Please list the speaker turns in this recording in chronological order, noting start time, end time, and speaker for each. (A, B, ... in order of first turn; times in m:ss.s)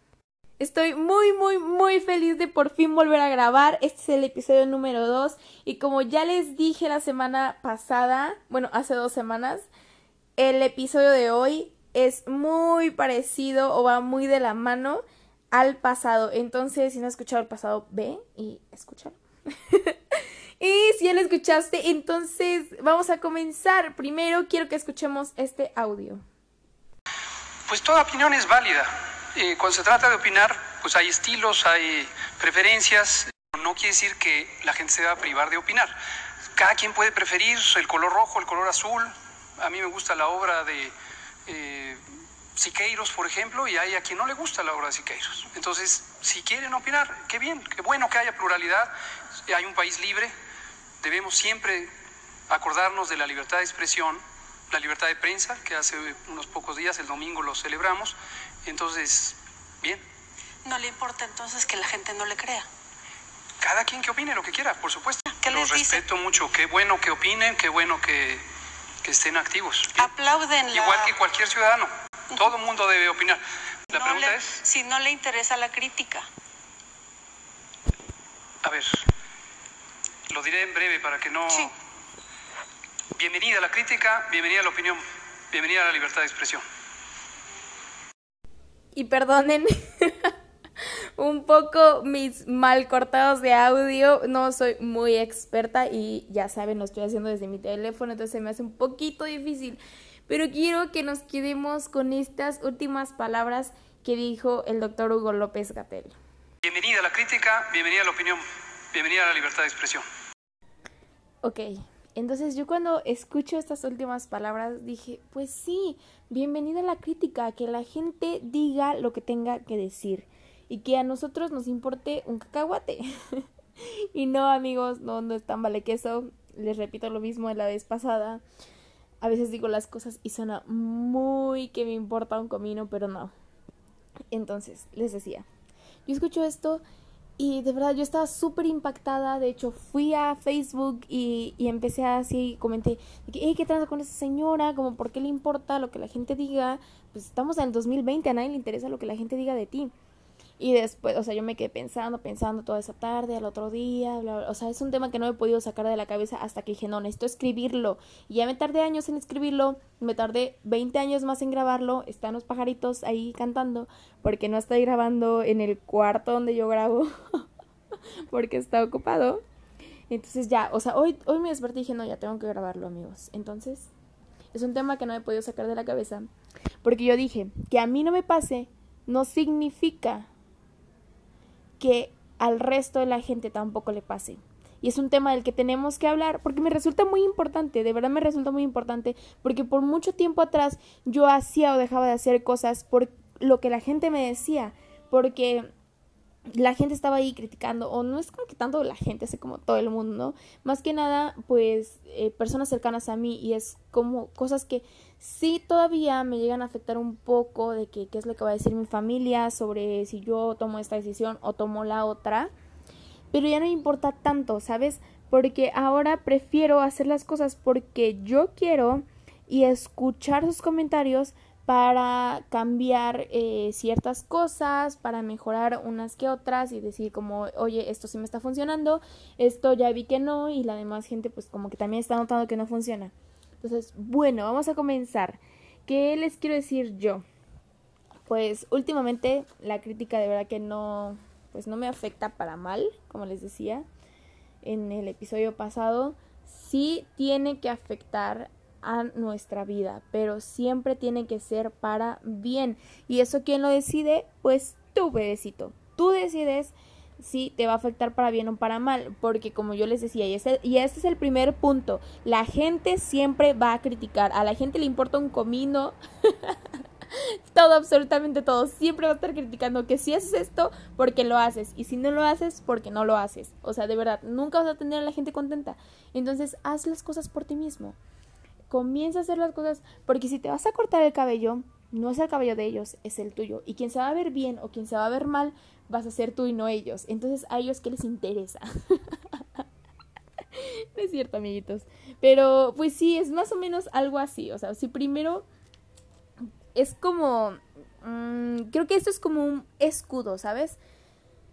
0:00.6-0:09.7 A
0:10.4-0:19.2 A
0:19.7-0:26.2 A
0:27.7-0:35.9 B
0:36.6-0:40.9 B
0:41.5-0:42.0 B
0:42.6-0:50.3 B
0:51.0-0:51.9 B
0:52.5-1:00.0 B
1:00.6-1:02.7 C
1:03.6-1:08.4 B
1:05.4-1:06.0 C
1:09.0-1:10.1 B
1:10.0-1:11.1 C
1:10.7-1:14.6 B
1:13.9-1:16.3 C
1:18.6-1:19.1 B
1:20.3-1:21.7 B
1:23.2-1:26.6 B
1:28.9-1:46.2 A
1:46.6-1:48.4 B
1:48.9-1:50.0 B
1:51.4-2:08.4 A
2:09.2-2:13.3 A
2:14.3-2:15.5 A
2:16.1-2:16.8 A
2:17.4-2:29.9 A
2:30.6-2:47.5 A
2:48.3-2:49.4 A
2:50.1-2:53.9 A
2:54.5-2:56.3 A
2:56.8-3:00.3 A
3:01.8-3:15.7 A
3:16.5-3:32.5 A
3:33.3-3:57.2 A
3:58.3-4:03.9 A
4:04.6-4:26.6 A
4:27.5-4:38.0 A
4:38.7-4:49.6 A
4:50.6-4:55.5 A
4:56.8-5:00.8 A